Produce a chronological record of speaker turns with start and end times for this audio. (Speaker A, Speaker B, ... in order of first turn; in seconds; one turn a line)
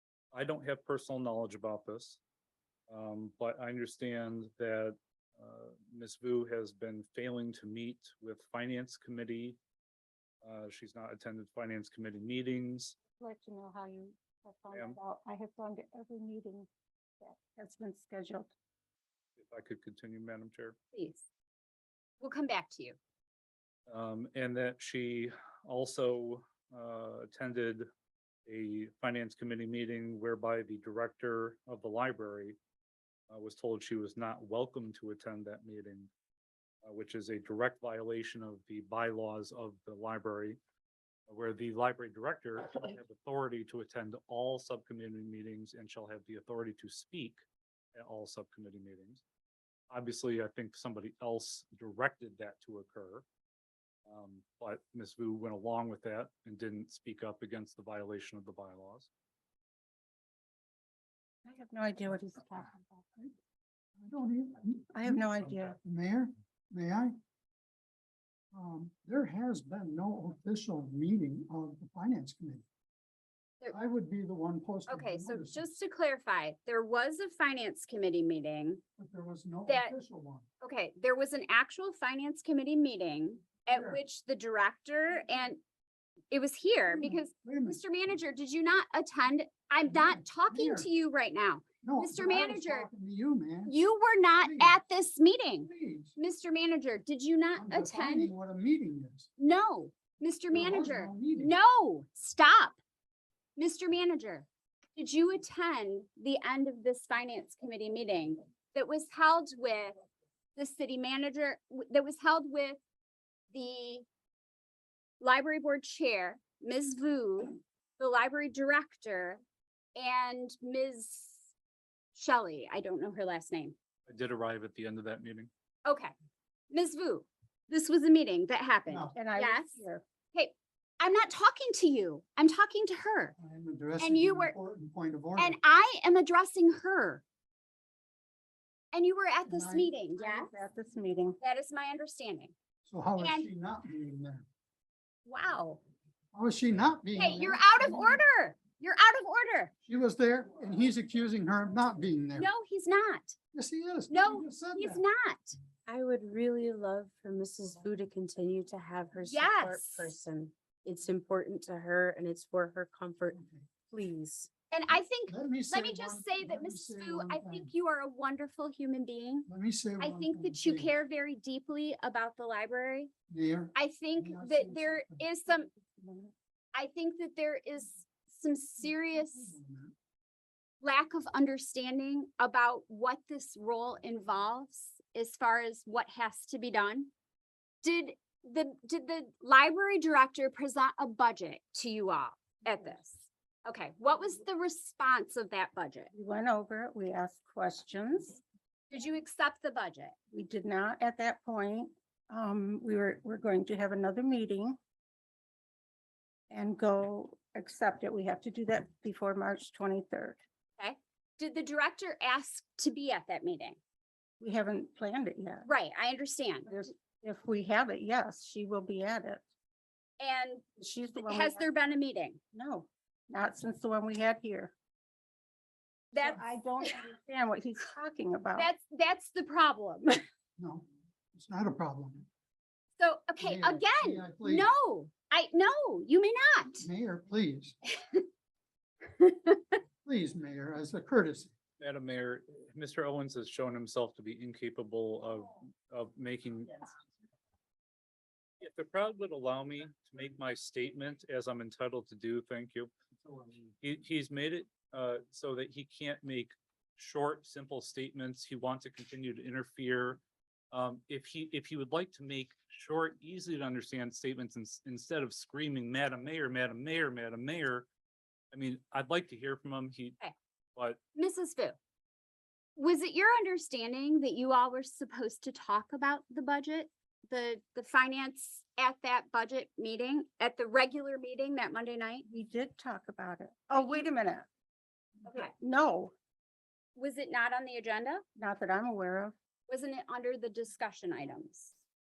Speaker A: 0.3-2.2
Speaker A: 2.9-9.6
Speaker A: 10.4-12.9
Speaker B: 13.2-16.7
Speaker A: 14.7-15.0
Speaker B: 17.2-18.5
Speaker A: 19.4-20.8
Speaker C: 20.9-21.2
Speaker C: 22.2-23.0
Speaker A: 23.9-27.9
Speaker A: 28.5-32.6
Speaker A: 33.3-36.1
Speaker A: 36.8-40.6
Speaker A: 41.3-47.4
Speaker A: 48.0-49.2
Speaker A: 49.9-53.2
Speaker A: 54.1-59.1
Speaker B: 61.4-63.0
Speaker D: 64.0-67.1
Speaker B: 64.9-65.8
Speaker D: 68.5-72.6
Speaker D: 73.7-75.7
Speaker C: 74.9-78.8
Speaker D: 79.0-80.4
Speaker C: 79.7-79.9
Speaker C: 80.6-85.6
Speaker D: 83.7-84.0
Speaker C: 86.3-92.9
Speaker D: 86.9-87.8
Speaker D: 89.9-90.9
Speaker D: 91.8-93.9
Speaker C: 93.7-98.3
Speaker D: 94.4-94.8
Speaker D: 95.6-96.1
Speaker D: 97.5-99.3
Speaker C: 99.4-102.8
Speaker D: 100.5-101.5
Speaker C: 103.6-109.9
Speaker C: 110.5-112.8
Speaker C: 113.5-114.0
Speaker C: 115.2-119.4
Speaker C: 120.0-121.5
Speaker C: 122.1-123.8
Speaker A: 124.1-125.5
Speaker C: 125.8-126.1
Speaker C: 126.7-129.8
Speaker D: 128.9-129.2
Speaker B: 129.1-130.0
Speaker C: 130.3-133.3
Speaker D: 133.4-135.6
Speaker C: 134.0-134.5
Speaker C: 135.4-137.2
Speaker C: 138.9-140.5
Speaker D: 139.5-139.8
Speaker B: 139.6-141.4
Speaker C: 141.4-142.5
Speaker D: 142.8-144.4
Speaker C: 143.2-143.5
Speaker C: 145.2-145.8
Speaker D: 146.3-148.2
Speaker C: 147.2-149.7
Speaker D: 149.8-152.5
Speaker C: 152.4-153.3
Speaker D: 153.5-155.0
Speaker C: 154.1-155.6
Speaker E: 155.9-164.5
Speaker C: 159.3-160.1
Speaker D: 163.3-163.7
Speaker C: 164.7-169.5
Speaker D: 165.3-167.7
Speaker D: 169.5-170.9
Speaker C: 170.0-173.1
Speaker D: 173.3-175.2
Speaker C: 173.7-175.7
Speaker B: 176.0-176.3
Speaker C: 176.7-179.6
Speaker D: 179.3-179.9
Speaker C: 180.8-187.1
Speaker C: 187.8-196.1
Speaker B: 196.1-198.4
Speaker C: 198.9-200.1
Speaker B: 200.3-204.8
Speaker B: 206.5-210.4
Speaker C: 210.8-213.8
Speaker B: 214.4-215.7
Speaker C: 215.6-216.7
Speaker B: 216.7-219.4
Speaker C: 220.2-220.6
Speaker B: 220.8-221.7
Speaker C: 221.2-222.4
Speaker B: 222.5-224.7
Speaker C: 226.1-227.0
Speaker B: 226.2-228.7
Speaker C: 228.6-230.2
Speaker D: 230.6-232.3
Speaker C: 233.0-236.9
Speaker D: 233.4-234.7
Speaker D: 236.8-237.8
Speaker C: 237.9-238.2
Speaker C: 239.1-239.8
Speaker D: 240.0-241.5
Speaker A: 241.8-246.9
Speaker A: 248.6-252.9
Speaker A: 253.7-260.2
Speaker A: 260.7-267.9
Speaker A: 268.5-270.2
Speaker C: 271.1-271.8
Speaker C: 272.8-282.2
Speaker B: 282.3-284.5
Speaker C: 283.8-284.1
Speaker C: 285.2-285.5
Speaker B: 285.6-286.1
Speaker C: 286.9-288.2
Speaker B: 288.4-289.3
Speaker C: 289.7-291.8